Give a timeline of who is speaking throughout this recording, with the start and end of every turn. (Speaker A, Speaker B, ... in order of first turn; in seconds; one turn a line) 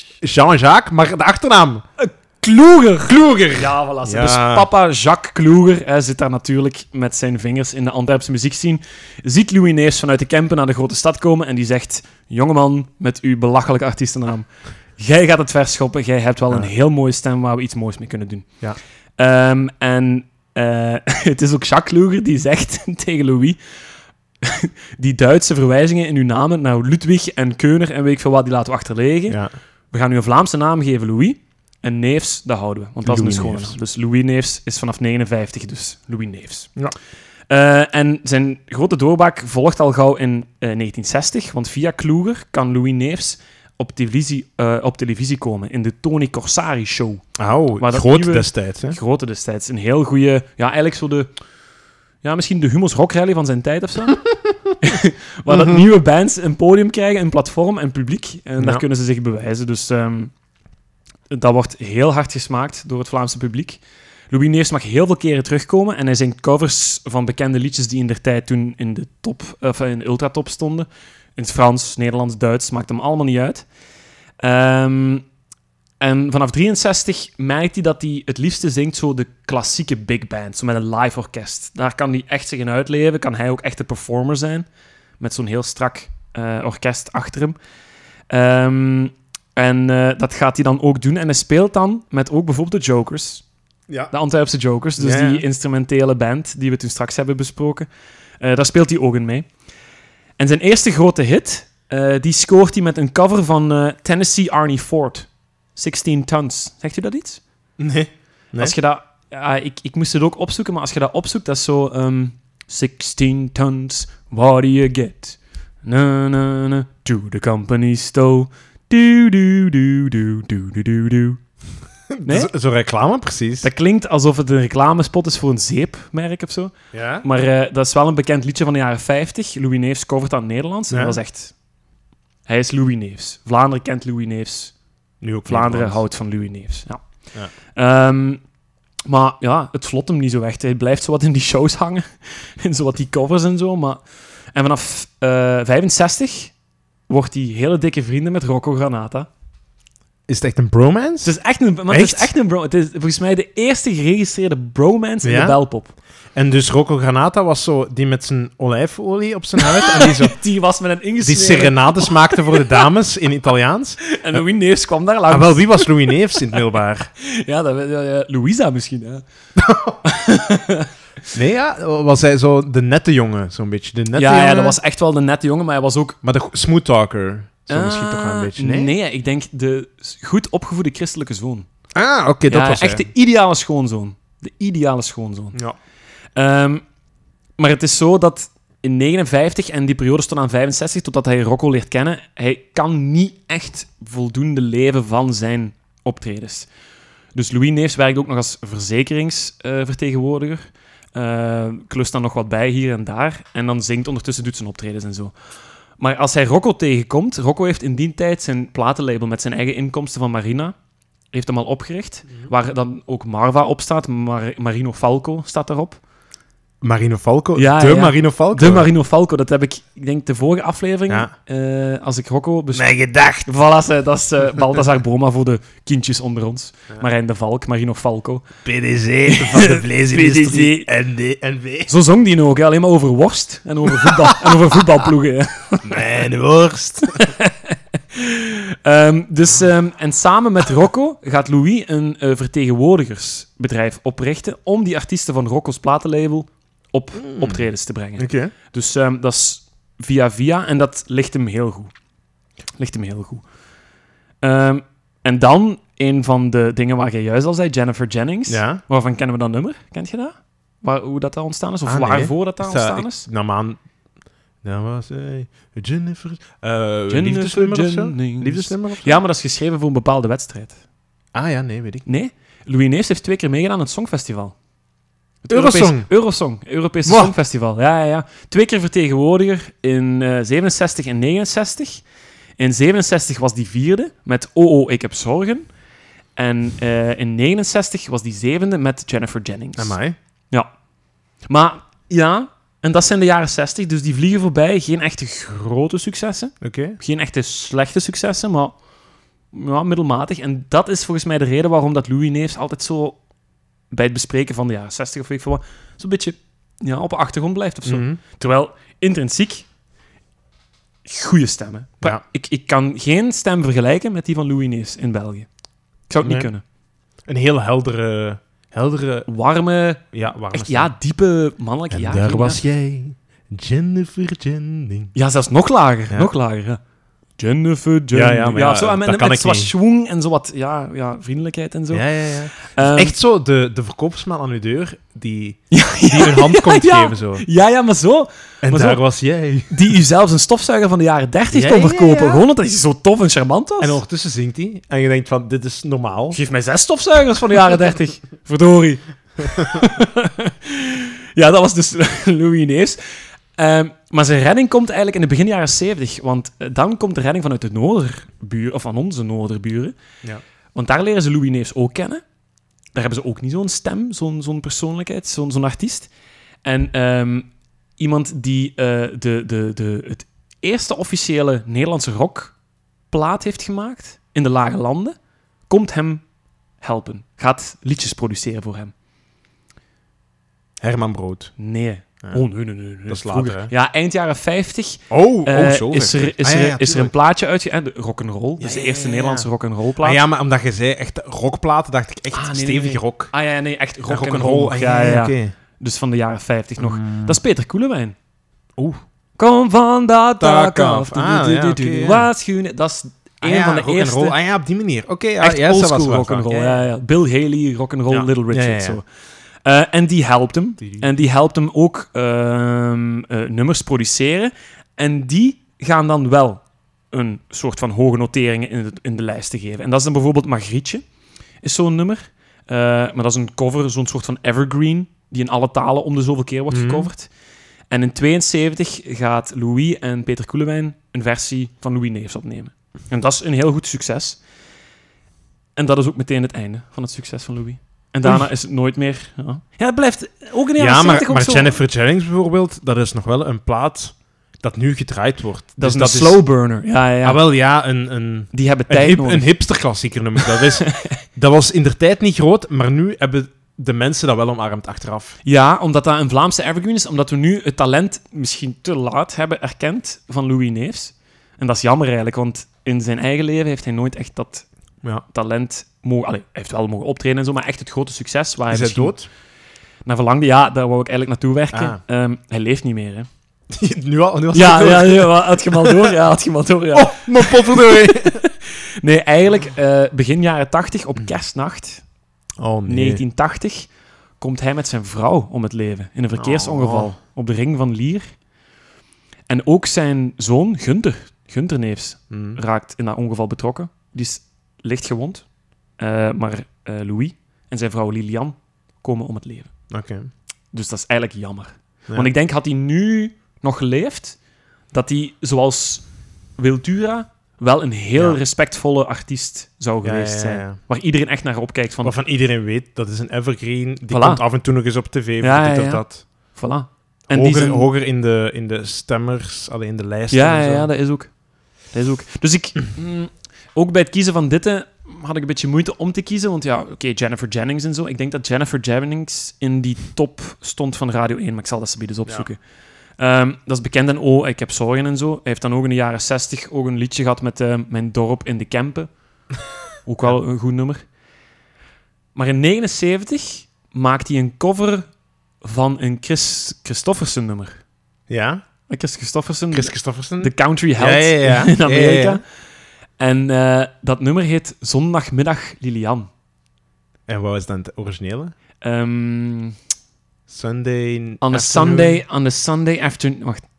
Speaker A: 0.2-1.8
Speaker B: 2.0-14.5
Speaker A: 3.1-4.7
Speaker B: 15.0-18.5
Speaker B: 19.2-23.6
Speaker B: 24.4-29.4
Speaker B: 29.9-36.8
Speaker A: 33.0-33.8
Speaker B: 37.5-47.2
Speaker A: 47.4-49.0
Speaker B: 47.8-51.3
Speaker B: 52.2-60.3
Speaker A: 55.5-55.8
Speaker B: 61.3-73.7
Speaker B: 74.4-75.2
Speaker B: 76.0-84.7
Speaker B: 85.2-87.5
Speaker B: 88.3-93.4
Speaker B: 94.1-97.9
Speaker A: 95.0-95.4
Speaker B: 98.4-99.5
Speaker B: 100.4-107.4
Speaker A: 107.8-108.8
Speaker B: 108.6-121.4
Speaker A: 122.2-123.7
Speaker B: 122.2-122.5
Speaker B: 123.6-131.5
Speaker A: 126.9-127.2
Speaker A: 130.9-131.2
Speaker B: 132.5-134.7
Speaker A: 135.2-136.0
Speaker B: 135.4-137.0
Speaker B: 137.7-138.4
Speaker B: 139.1-144.0
Speaker B: 144.5-146.5
Speaker B: 147.1-149.3
Speaker A: 150.3-151.3
Speaker B: 151.2-155.9
Speaker A: 151.9-152.3
Speaker A: 155.2-155.6
Speaker A: 156.3-160.3
Speaker B: 159.6-162.9
Speaker A: 161.2-164.0
Speaker B: 164.0-166.6
Speaker A: 165.3-167.1
Speaker B: 167.2-169.2
Speaker A: 169.6-170.0
Speaker B: 170.0-170.9
Speaker A: 171.3-174.8
Speaker B: 174.1-176.2
Speaker A: 176.2-178.9
Speaker B: 177.7-181.7
Speaker A: 181.9-183.1
Speaker B: 182.5-185.6
Speaker B: 186.3-186.8
Speaker B: 187.6-196.7
Speaker B: 197.3-205.3
Speaker B: 206.0-210.7
Speaker B: 211.3-216.0
Speaker A: 216.8-218.9
Speaker B: 217.6-222.9
Speaker A: 222.7-223.5
Speaker B: 223.4-228.5
Speaker A: 228.6-231.9
Speaker B: 229.2-230.9
Speaker B: 231.9-236.2
Speaker A: 235.8-237.2
Speaker B: 237.0-251.9
Speaker A: 247.2-248.5
Speaker B: 252.8-253.4
Speaker B: 254.4-263.3
Speaker A: 258.5-258.8
Speaker A: 261.9-263.8
Speaker A: 264.6-269.2
Speaker B: 267.1-270.8
Speaker A: 271.3-272.0
Speaker B: 272.0-274.5
Speaker B: 275.4-282.0
Speaker A: 275.5-276.1
Speaker A: 277.0-277.3
Speaker B: 282.6-285.7
Speaker B: 286.4-289.9
Speaker A: 289.8-290.1
Speaker B: 291.5-298.7
Speaker A: 296.6-297.0
Speaker B: 299.5-303.2
Speaker B: 303.9-309.6
Speaker A: 307.9-308.2
Speaker B: 311.1-315.5
Speaker B: 316.1-316.6
Speaker A: 316.2-316.5
Speaker A: 317.3-319.3
Speaker B: 319.2-322.6
Speaker A: 320.1-320.9
Speaker A: 321.9-325.1
Speaker B: 325.1-326.8
Speaker B: 327.4-333.1
Speaker A: 328.1-329.7
Speaker A: 331.9-337.4
Speaker B: 335.7-339.0
Speaker A: 338.6-339.8
Speaker B: 339.7-344.0
Speaker A: 341.5-342.4
Speaker A: 343.8-346.4
Speaker B: 346.3-359.9
Speaker B: 360.7-362.2
Speaker B: 362.9-366.1
Speaker B: 366.6-372.5
Speaker B: 373.1-375.1
Speaker B: 375.7-376.2
Speaker B: 376.8-378.9
Speaker A: 380.8-381.5
Speaker B: 381.6-390.2
Speaker A: 383.1-383.7
Speaker A: 385.1-387.1
Speaker A: 388.6-389.5
Speaker A: 390.0-393.3
Speaker B: 392.3-398.1
Speaker A: 394.1-395.5
Speaker A: 396.8-397.4
Speaker B: 399.4-404.4
Speaker A: 400.4-402.3
Speaker A: 403.4-406.8
Speaker B: 405.4-409.0
Speaker A: 408.1-409.0
Speaker B: 409.6-421.0
Speaker A: 410.8-411.1
Speaker B: 421.6-427.3
Speaker A: 426.7-427.1
Speaker B: 427.9-434.4
Speaker B: 435.8-441.8
Speaker A: 440.8-446.4
Speaker B: 445.8-447.4
Speaker A: 447.2-455.4
Speaker B: 448.5-449.6
Speaker B: 450.4-451.2
Speaker B: 455.4-464.6
Speaker B: 465.3-469.1
Speaker A: 468.7-469.3
Speaker B: 470.1-473.3
Speaker A: 471.7-472.0
Speaker A: 473.7-476.2
Speaker B: 474.5-482.0
Speaker A: 476.9-478.4
Speaker A: 482.6-483.2
Speaker B: 482.9-488.2
Speaker A: 486.3-487.1
Speaker B: 489.5-495.4
Speaker A: 492.3-492.6
Speaker B: 496.0-499.7
Speaker A: 499.9-500.3
Speaker B: 500.7-504.4
Speaker B: 504.9-506.0
Speaker B: 506.6-512.1
Speaker A: 510.0-510.8
Speaker A: 512.0-516.2
Speaker B: 514.1-514.4
Speaker B: 515.4-517.9
Speaker A: 517.3-520.9
Speaker B: 520.3-521.3
Speaker B: 521.9-532.6
Speaker B: 533.2-539.1
Speaker B: 540.0-541.0
Speaker B: 542.3-545.1
Speaker B: 545.6-547.8
Speaker A: 548.3-548.6
Speaker B: 548.9-552.4
Speaker A: 549.7-552.4
Speaker B: 553.2-556.3
Speaker A: 557.3-558.5
Speaker B: 558.8-559.8
Speaker A: 560.5-562.2
Speaker B: 561.4-563.6